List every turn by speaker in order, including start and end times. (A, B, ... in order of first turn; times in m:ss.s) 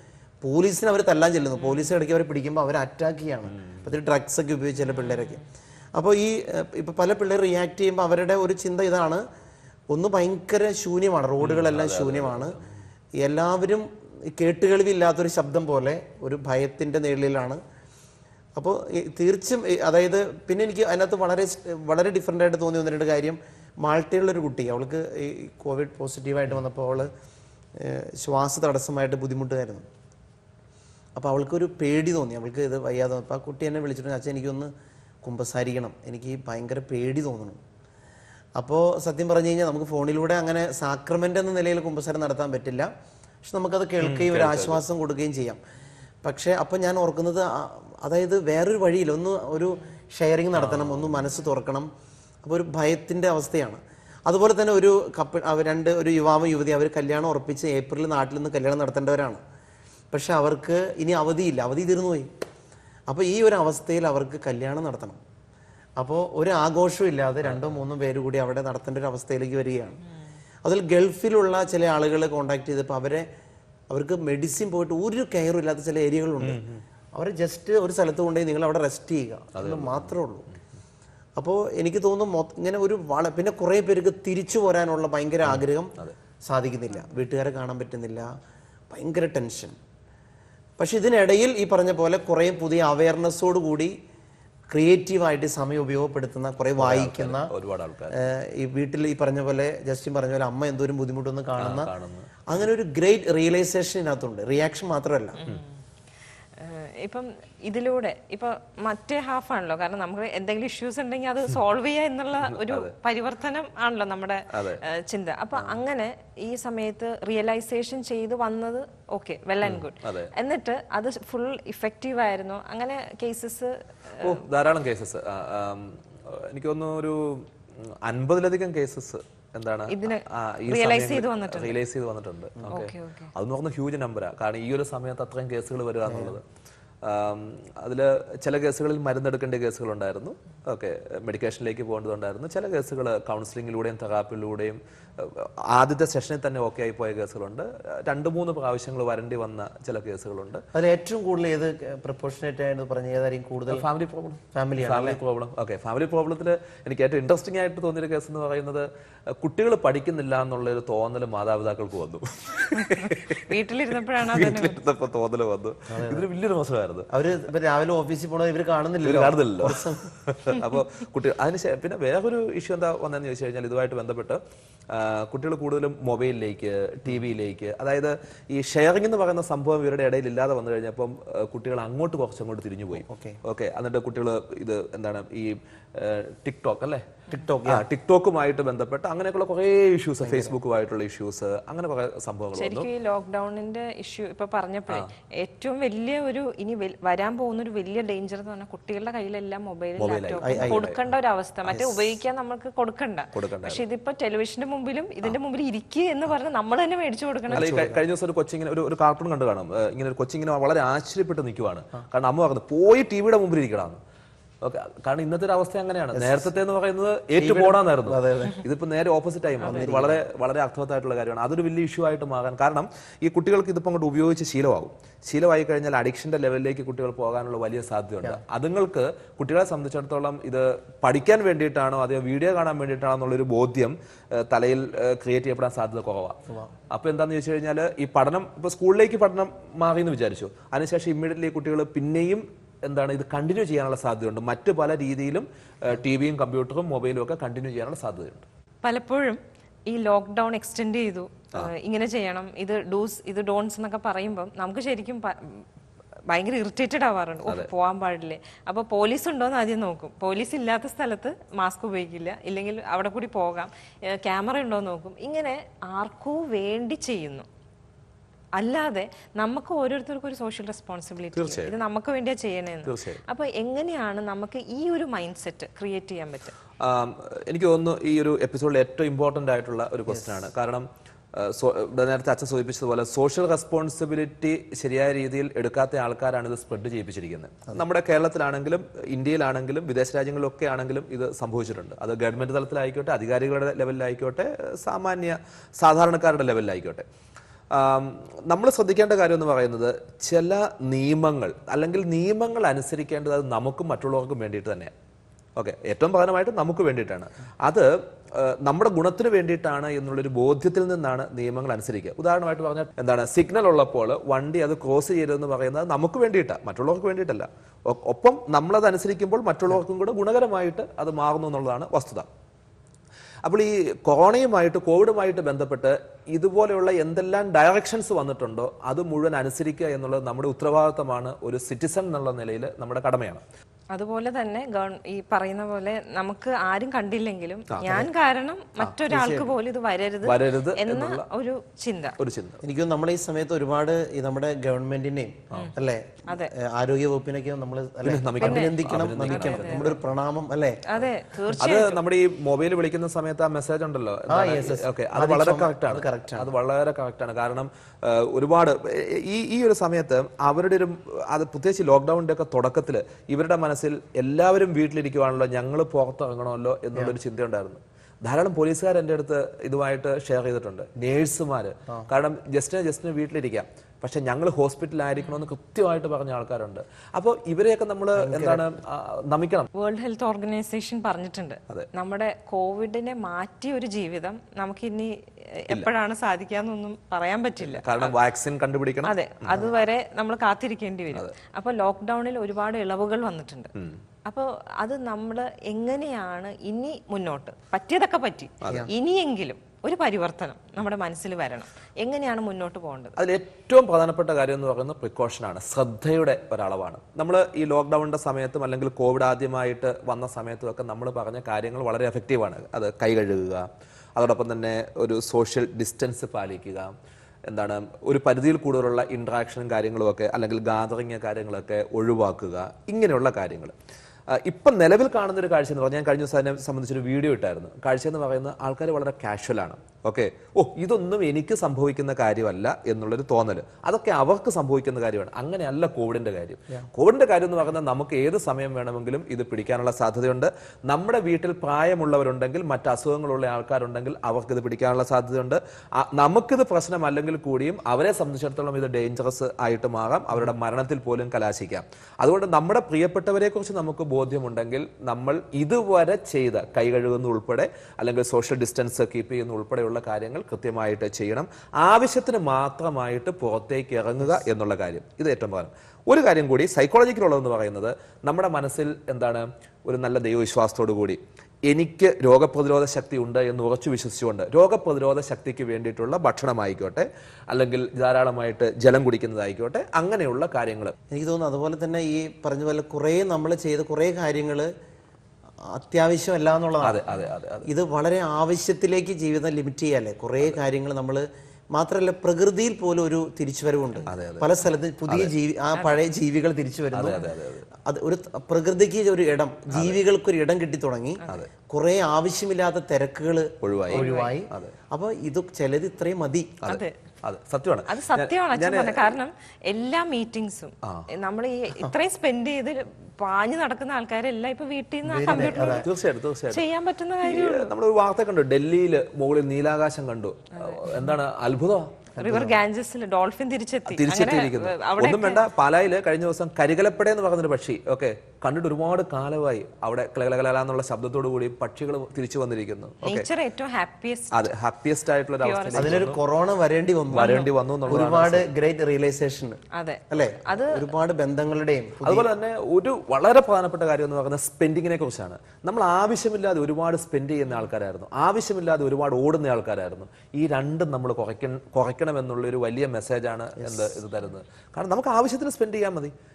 0:00.4-0:05.4 A
0:03.6-0:03.8 B
0:05.9-0:09.2 A
0:09.9-0:12.6 A
0:11.4-0:12.7 B
0:13.2-0:17.6 A
0:18.6-0:27.1 A
0:27.8-0:29.8 A
0:31.1-0:34.7 A
0:35.2-0:37.6 A
0:38.6-0:42.9 A
0:43.4-0:45.6 A
0:44.0-0:44.8 B
0:46.2-0:51.9 A
0:50.5-0:51.3 B
0:52.4-0:59.4 A
1:00.1-1:02.3 A
1:03.1-1:05.2 A
1:06.0-1:10.0 A
1:07.4-1:07.8 B
1:10.6-1:13.2 A
1:13.9-1:16.6 A
1:16.4-1:16.8 B
1:17.1-1:20.5 A
1:19.5-1:20.1 B
1:21.4-1:28.3 A
1:25.4-1:26.2 B
1:28.9-1:29.8 A
1:30.8-1:33.9 A
1:34.7-1:37.5 A
1:36.8-1:38.3 B
1:38.1-1:41.9 A
1:41.6-1:42.4 B
1:42.5-1:45.4 A
1:46.6-2:04.4 C
1:52.5-1:52.9 B
1:54.5-1:54.8 B
1:59.6-2:00.3 B
2:04.2-2:16.4 B
2:09.9-2:11.8 C
2:12.7-2:13.3 C
2:16.0-2:16.4 A
2:17.0-2:30.6 B
2:30.7-2:33.9 A
2:33.7-2:43.4 B
2:34.5-2:35.2 A
2:42.8-2:44.8 C
2:44.2-2:47.1 B
2:45.9-2:46.3 A
2:47.1-2:50.1 A
2:49.0-3:07.1 B
3:03.0-3:03.4 A
3:07.3-3:07.9 A
3:07.6-3:12.9 B
3:10.2-3:10.6 A
3:12.6-3:27.8 C
3:20.0-3:21.0 B
3:20.4-3:20.8 A
3:23.3-3:23.8 B
3:27.5-3:28.0 A
3:27.5-3:34.0 B
3:34.6-4:08.4 B
3:36.1-3:36.5 A
3:37.4-3:38.6 A
3:39.6-3:40.2 A
4:08.8-4:15.6 C
4:16.3-4:27.4 C
4:28.6-4:36.6 C
4:31.3-4:31.8 B
4:32.8-4:33.2 B
4:36.8-4:57.0 B
4:40.1-4:40.4 A
4:57.7-5:04.9 B
5:05.6-5:22.3 B
5:23.4-5:33.4 B
5:33.9-5:42.2 C
5:39.1-5:39.5 A
5:40.2-5:41.3 B
5:42.2-5:42.6 B
5:42.6-5:50.8 A
5:46.3-5:46.5 C
5:48.0-5:50.0 B
5:48.4-5:49.9 C
5:50.8-5:52.0 C
5:51.6-6:19.7 B
5:54.3-5:56.5 A
6:18.1-6:18.6 A
6:19.7-6:28.1 C
6:27.6-6:29.7 B
6:29.0-6:33.7 C
6:34.2-6:43.1 C
6:43.2-6:56.9 B
6:57.5-7:03.7 B
7:04.3-8:00.9 B
8:01.1-8:04.7 A
8:05.7-8:07.0 A
8:06.8-8:07.7 B
8:07.6-8:17.2 A
8:14.0-8:14.5 B
8:15.1-8:15.3 B
8:16.9-8:17.7 B
8:17.8-8:26.6 A
8:19.7-8:20.0 B
8:23.6-8:24.7 B
8:23.9-8:24.3 C
8:26.6-8:29.2 B
8:26.7-8:26.9 C
8:27.9-8:35.9 C
8:35.0-8:35.9 A
8:35.3-8:36.6 B
8:36.5-8:37.7 C
8:37.2-8:42.6 B
8:40.5-8:41.0 C
8:42.2-8:45.4 C
8:42.2-8:42.5 A
8:43.9-8:53.3 B
8:53.0-8:54.5 C
8:54.3-8:56.2 B
8:55.4-8:56.0 C
8:55.7-9:02.3 A
8:57.1-8:58.5 B
8:57.1-8:57.5 C
8:59.7-9:00.9 C
9:02.0-9:16.1 B
9:13.6-9:13.9 A